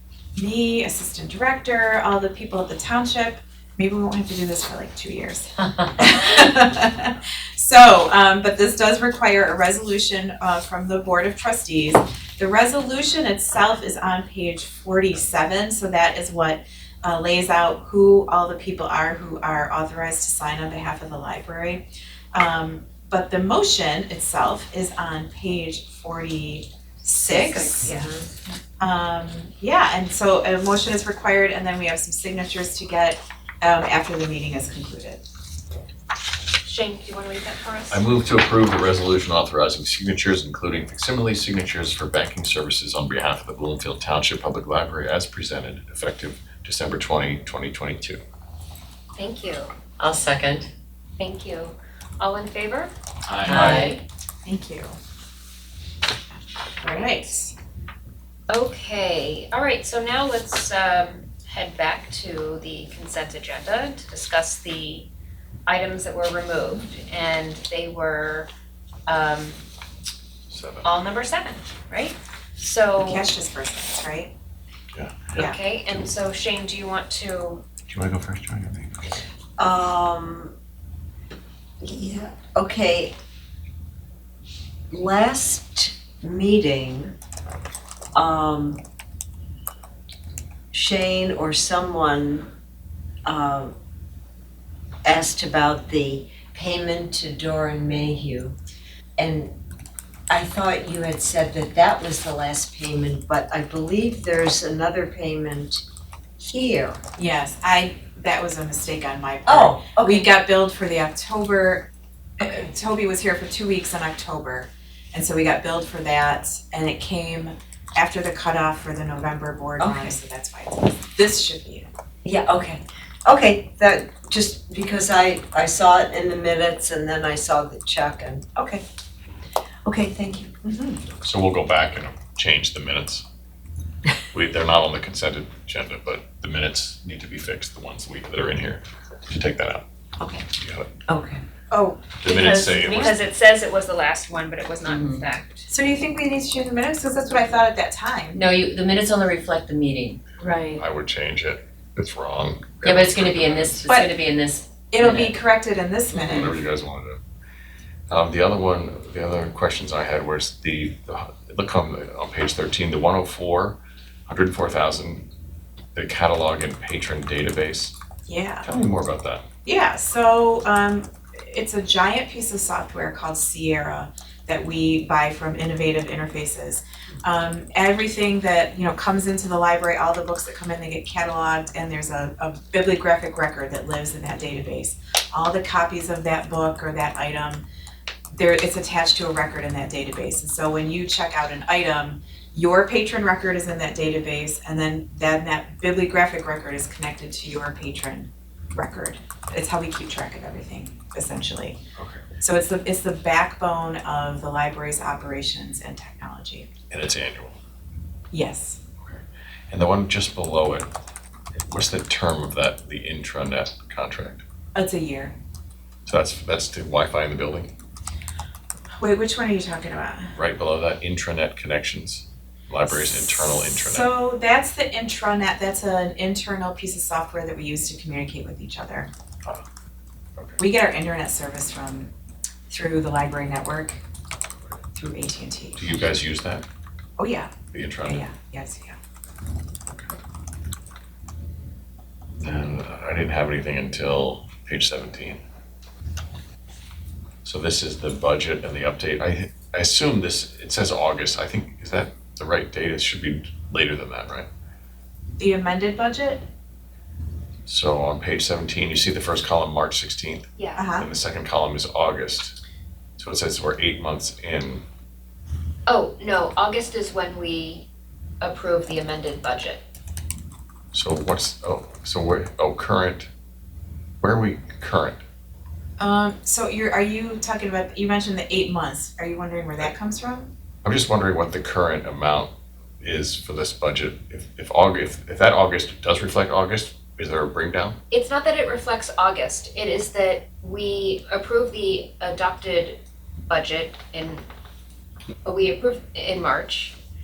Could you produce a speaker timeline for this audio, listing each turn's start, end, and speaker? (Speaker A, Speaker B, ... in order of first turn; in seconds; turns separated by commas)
Speaker A: 0.4-28.1, Speaker B: 27.3-28.1, Speaker A: 28.8-35.2, Speaker B: 36.6-38.0, Speaker C: 37.9-48.2, Speaker B: 49.2-49.7, Speaker D: 50.0-50.7, Speaker B: 51.2-52.9, Speaker C: 53.3-53.9, Speaker D: 53.5-54.0, Speaker B: 53.5-54.0, Speaker A: 54.5-55.0, Speaker A: 56.8-57.5, Speaker B: 58.5-65.1, Speaker B: 65.7-68.5, Speaker B: 69.1-69.6, Speaker C: 70.5-70.9, Speaker B: 70.8-73.3, Speaker A: 73.0-74.3, Speaker C: 74.9-75.4, Speaker B: 75.3-77.6, Speaker C: 77.9-79.2, Speaker E: 79.6-80.5, Speaker E: 81.8-83.1, Speaker E: 84.9-87.1, Speaker E: 88.2-88.8, Speaker E: 90.7-92.5, Speaker E: 93.2-93.7, Speaker E: 95.0-98.6, Speaker E: 99.2-99.5, Speaker E: 100.3-105.8, Speaker E: 106.4-107.0, Speaker A: 107.2-121.9, Speaker E: 109.5-110.3, Speaker E: 119.8-120.2, Speaker E: 122.2-128.8, Speaker E: 129.8-130.6, Speaker A: 130.6-131.0, Speaker C: 131.2-133.2, Speaker C: 134.3-139.9, Speaker C: 140.6-140.9, Speaker E: 141.1-141.4, Speaker A: 141.7-142.8, Speaker C: 142.2-143.2, Speaker B: 142.3-145.7, Speaker D: 144.9-145.2, Speaker A: 145.7-148.4, Speaker D: 148.3-150.8, Speaker C: 150.8-153.8, Speaker D: 152.8-155.4, Speaker A: 154.9-156.6, Speaker C: 156.2-157.2, Speaker C: 158.1-165.3, Speaker C: 165.9-167.9, Speaker A: 168.3-168.7, Speaker C: 168.6-169.4, Speaker A: 169.7-187.6, Speaker A: 188.3-201.8, Speaker C: 202.0-202.2, Speaker A: 202.4-206.7, Speaker C: 206.9-207.6, Speaker A: 208.3-208.8, Speaker C: 209.0-210.9, Speaker C: 211.7-214.4, Speaker A: 214.8-215.3, Speaker C: 216.1-217.7, Speaker A: 219.0-220.3, Speaker C: 220.4-224.1, Speaker A: 222.9-229.1, Speaker A: 230.6-232.1, Speaker A: 232.7-234.0, Speaker A: 234.9-235.8, Speaker C: 235.8-236.7, Speaker A: 237.2-237.5, Speaker C: 237.7-238.3, Speaker A: 238.0-239.0, Speaker C: 242.4-245.4, Speaker C: 247.4-254.5, Speaker A: 255.4-256.4, Speaker C: 257.7-262.6, Speaker B: 260.6-260.9, Speaker A: 260.8-261.1, Speaker C: 263.2-264.8, Speaker B: 265.9-267.9, Speaker B: 268.4-269.8, Speaker C: 270.9-273.3, Speaker C: 274.2-275.2, Speaker A: 276.0-280.5, Speaker C: 280.8-288.0, Speaker B: 288.1-294.4, Speaker B: 295.4-297.0